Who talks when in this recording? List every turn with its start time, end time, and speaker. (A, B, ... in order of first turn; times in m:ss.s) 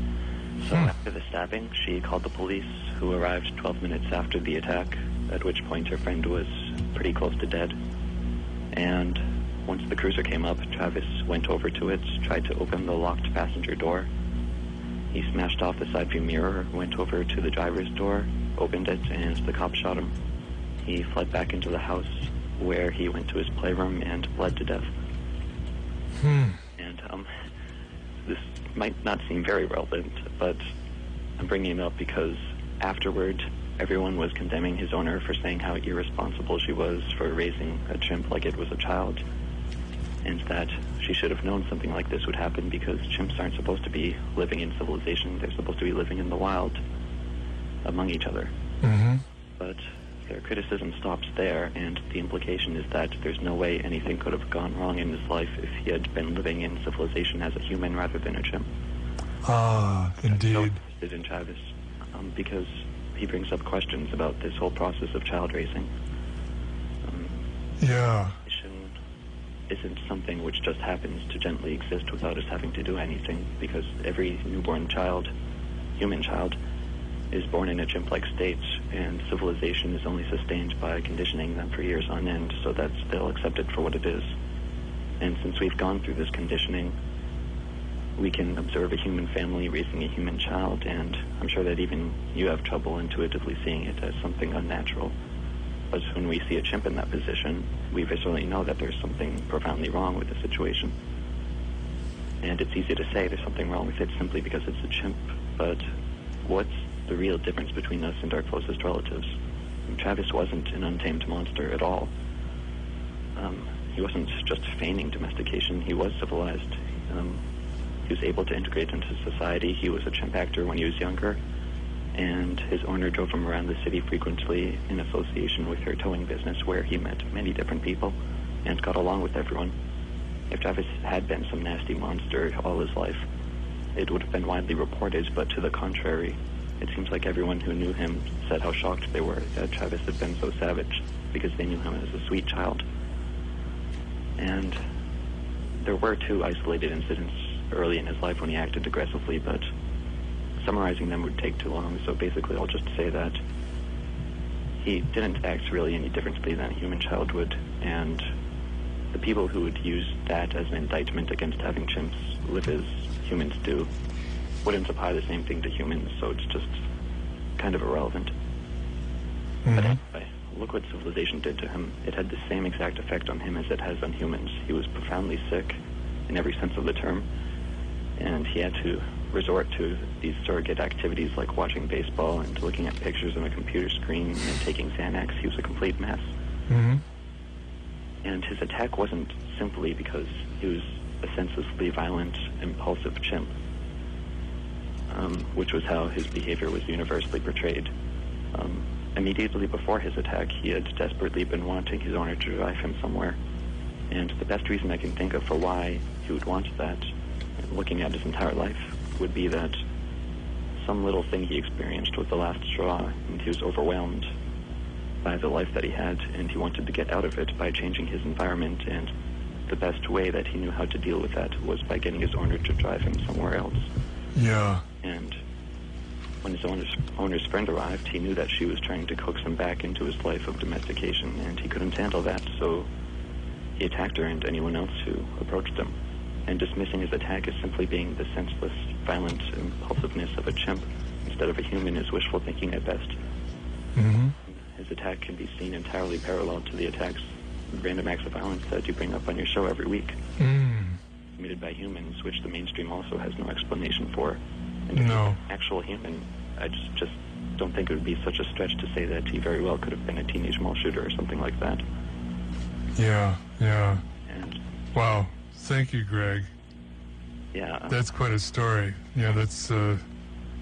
0:00.6-0:07.8 A
0:08.7-0:14.1 A
0:15.1-0:20.1 A
0:20.8-0:24.9 A
0:26.2-0:26.6 B
0:26.8-0:27.3 A
0:28.2-0:30.6 A
0:31.4-0:39.2 A
0:40.2-0:46.8 A
0:47.8-0:48.5 A
0:48.8-0:49.2 B
0:49.6-0:58.7 A
0:59.4-1:00.8 B
1:00.2-1:05.9 A
1:07.0-1:07.4 A
1:07.8-1:08.4 B
1:08.4-1:08.9 A
1:09.7-1:15.3 A
1:16.0-1:16.6 A
1:17.3-1:24.3 A
1:25.2-1:27.0 A
1:28.2-1:35.1 A
1:35.9-1:40.9 A
1:42.4-1:45.8 A
1:46.4-1:49.3 A
1:49.9-1:52.1 A
1:53.4-1:57.4 A
1:58.1-2:01.4 A
2:02.1-2:09.7 A
2:10.5-2:13.2 A
2:14.0-2:22.8 A
2:24.4-2:24.8 A
2:25.8-2:29.7 A
2:30.6-2:33.4 A
2:34.8-2:38.2 A
2:39.1-2:43.9 A
2:44.6-2:46.8 A
2:47.6-2:48.3 A
2:49.6-2:50.0 B
2:49.7-2:57.2 A
2:58.2-3:06.3 A
3:06.7-3:07.0 B
3:08.2-3:13.5 A
3:15.1-3:17.9 A
3:18.5-3:23.4 A
3:24.1-3:29.8 A
3:30.8-3:34.3 A
3:35.2-3:39.1 A
3:39.7-3:43.9 A
3:44.3-3:44.8 B
3:45.0-3:45.4 A
3:46.4-3:52.9 A
3:53.8-3:56.0 A
3:56.5-4:03.2 A
4:04.0-4:04.3 B
4:04.4-4:10.2 A
4:10.4-4:11.0 B
4:11.4-4:21.8 A
4:15.0-4:15.4 B
4:22.9-4:24.0 B
4:24.3-4:24.6 A
4:24.9-4:26.5 B
4:27.5-4:28.0 A
4:27.9-4:30.0 B